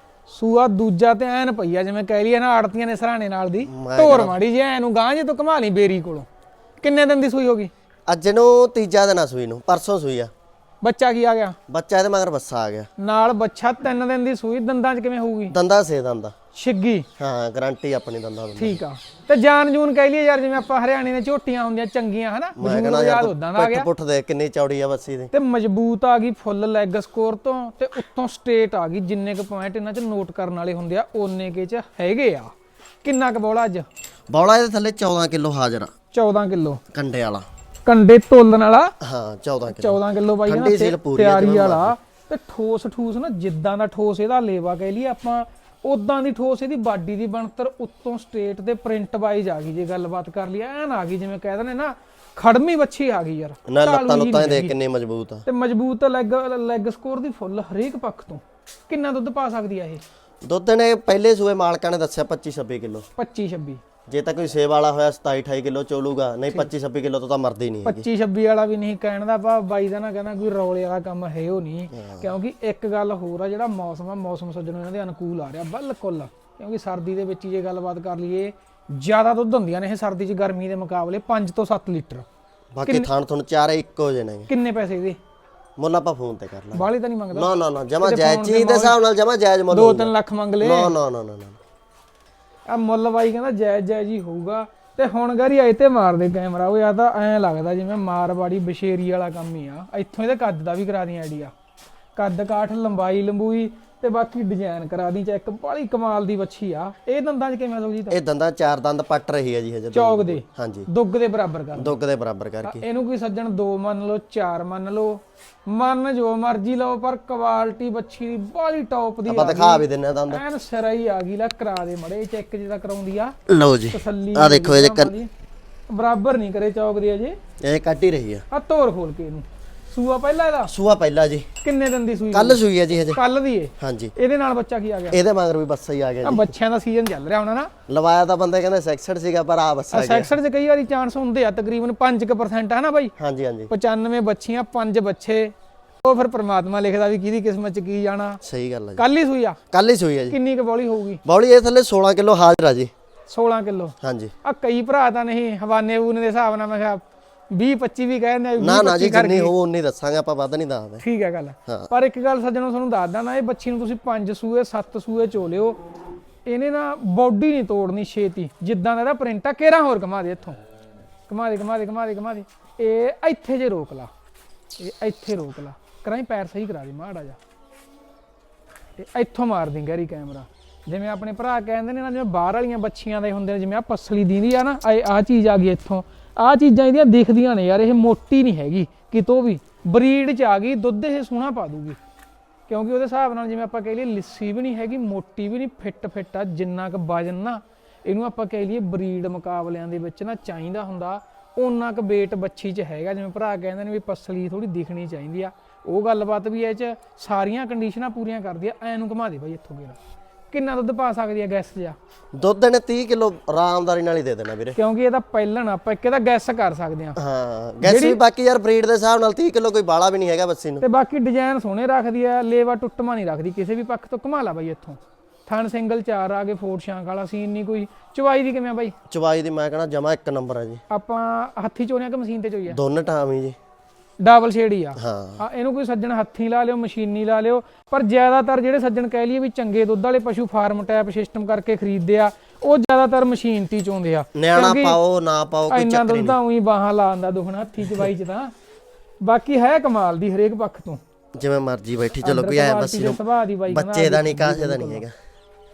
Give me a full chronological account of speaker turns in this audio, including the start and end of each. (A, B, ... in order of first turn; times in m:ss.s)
0:00.3-0:06.3 A
0:03.7-0:04.4 B
0:06.8-0:07.7 A
0:08.1-0:10.3 B
0:10.8-0:11.6 A
0:11.7-0:12.9 B
0:13.0-0:15.6 A
0:15.5-0:16.3 B
0:16.5-0:17.1 A
0:17.2-0:18.8 B
0:18.6-0:23.9 A
0:22.6-0:25.3 B
0:25.3-0:32.5 A
0:33.0-0:33.9 A
0:34.3-0:35.9 B
0:36.1-0:36.8 A
0:36.9-0:37.5 B
0:37.9-0:38.9 A
0:39.0-0:42.0 B
0:39.7-0:54.7 A
0:53.7-0:55.4 B
0:55.5-1:00.0 A
1:00.4-1:03.1 B
1:03.2-1:03.8 A
1:04.1-1:08.1 B
1:07.8-1:22.3 A
1:11.9-1:12.3 B
1:22.7-1:24.5 B
1:24.5-1:25.2 A
1:25.8-1:31.6 B
1:26.7-1:27.5 A
1:28.0-1:29.0 A
1:29.7-1:30.9 A
1:32.7-1:41.5 A
1:42.2-1:48.2 A
1:48.1-1:50.9 B
1:49.9-1:52.0 A
1:51.8-1:52.8 B
1:52.6-2:03.4 A
1:59.3-2:00.4 B
2:03.5-2:05.1 B
2:03.9-2:05.3 A
2:05.9-2:07.4 A
2:07.6-2:08.4 B
2:08.5-2:10.7 A
2:10.7-2:11.5 B
2:11.6-2:15.2 A
2:12.3-2:13.2 B
2:13.8-2:14.1 B
2:15.1-2:16.5 B
2:16.2-2:17.7 A
2:17.9-2:20.4 B
2:19.9-2:23.1 A
2:23.2-2:23.7 B
2:23.7-2:28.4 A
2:28.4-2:29.0 B
2:29.0-2:29.6 A
2:29.7-2:30.4 B
2:30.3-2:31.2 A
2:31.2-2:32.9 B
2:33.3-2:39.5 A
2:34.0-2:34.3 B
2:38.6-2:41.0 B
2:41.0-2:45.8 A
2:46.5-2:50.6 A
2:51.3-2:54.1 A
2:54.8-2:57.4 A
2:59.0-3:12.0 A
3:12.7-3:30.0 A
3:30.5-3:32.0 A
3:32.3-3:34.8 B
3:34.8-3:37.2 A
3:37.2-3:40.8 B
3:37.8-3:38.2 A
3:40.8-3:48.9 A
3:49.1-3:50.8 B
3:50.9-3:52.8 A
3:52.7-3:53.6 B
3:54.2-4:05.0 A
3:55.0-3:55.4 B
4:04.4-4:06.4 B
4:05.7-4:08.5 A
4:09.2-4:11.0 A
4:11.4-4:15.1 B
4:12.2-4:15.0 A